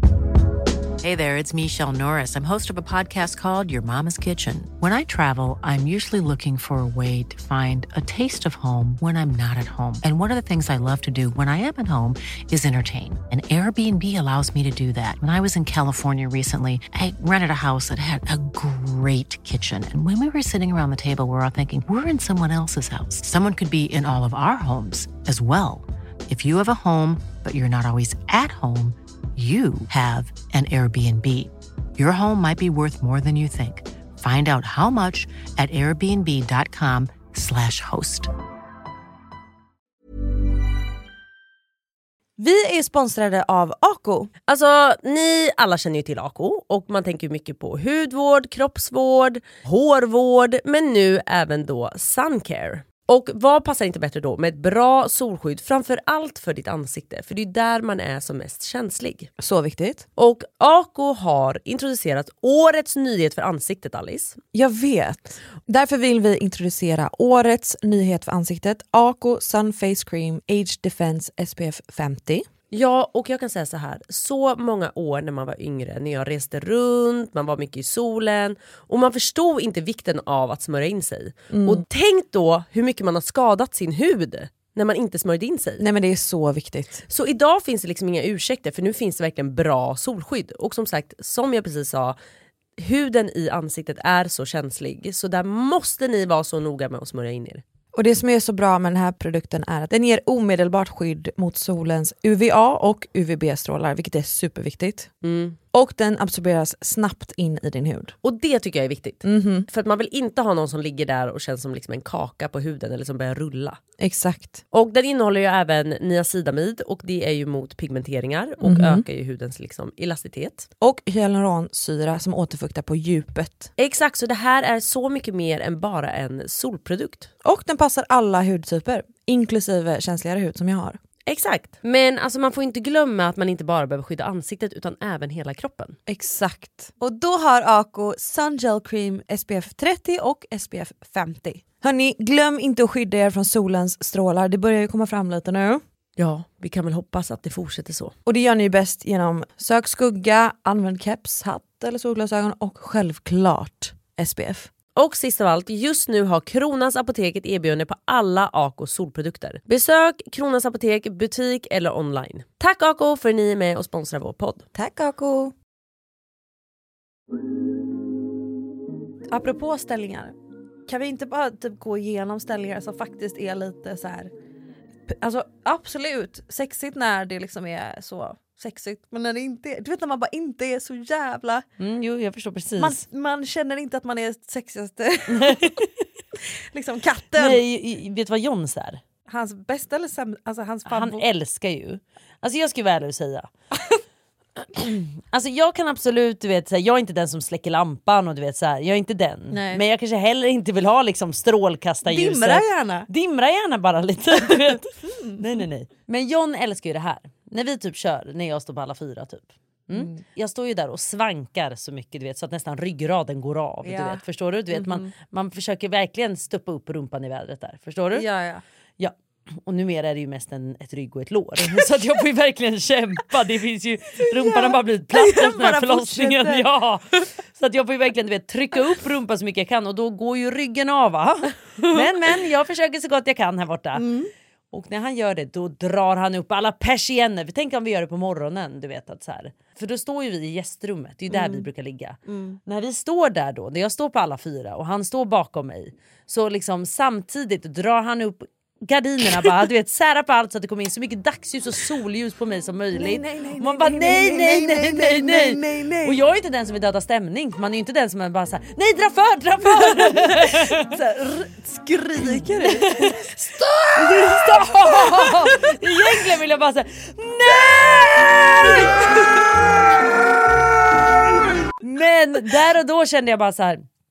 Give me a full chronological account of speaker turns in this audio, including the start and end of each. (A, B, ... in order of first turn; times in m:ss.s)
0:01.0-0:38.3 A
0:42.4-0:44.3 B
0:44.5-0:59.3 C
0:59.4-1:00.1 B
1:00.2-1:04.4 C
1:04.5-1:12.5 B
1:12.7-1:25.8 C
1:21.5-1:21.8 B
1:25.8-1:27.0 B
1:27.1-1:32.2 C
1:32.8-1:37.6 C
1:37.9-1:45.1 B
1:45.2-1:45.6 C
1:45.7-1:48.2 B
1:48.2-1:53.8 C
1:49.2-1:49.7 B
1:54.0-1:54.6 B
1:54.7-2:00.7 C
1:58.6-1:59.0 B
2:00.8-2:03.7 B
2:03.8-2:07.3 C
2:07.4-2:11.0 B
2:11.3-2:16.0 C
2:16.1-2:25.8 B
2:26.2-2:28.1 C
2:28.2-2:34.7 B
2:35.0-2:44.7 C
2:44.8-2:45.5 B
2:49.3-2:50.4 B
2:50.9-2:54.3 B
2:55.1-3:01.7 B
3:01.8-3:03.0 C
3:02.8-3:05.8 B
3:05.3-3:06.0 C
3:06.7-3:07.6 B
3:07.4-3:09.0 C
3:09.3-3:11.2 B
3:10.9-3:13.5 C
3:14.8-3:38.3 C
3:19.5-3:19.8 B
3:22.1-3:23.1 B
3:24.4-3:25.4 B
3:29.9-3:30.2 B
3:33.8-3:35.1 B
3:38.1-3:38.6 B
3:39.0-3:54.1 C
3:44.2-3:46.7 B
3:51.8-3:52.1 B
3:54.0-3:54.3 B
3:54.7-4:20.9 C
4:01.3-4:01.7 B
4:02.3-4:02.6 B
4:12.9-4:16.2 B
4:19.6-4:26.2 B
4:22.2-4:23.3 C
4:24.0-4:29.1 C
4:28.6-4:29.4 B
4:31.8-4:33.9 C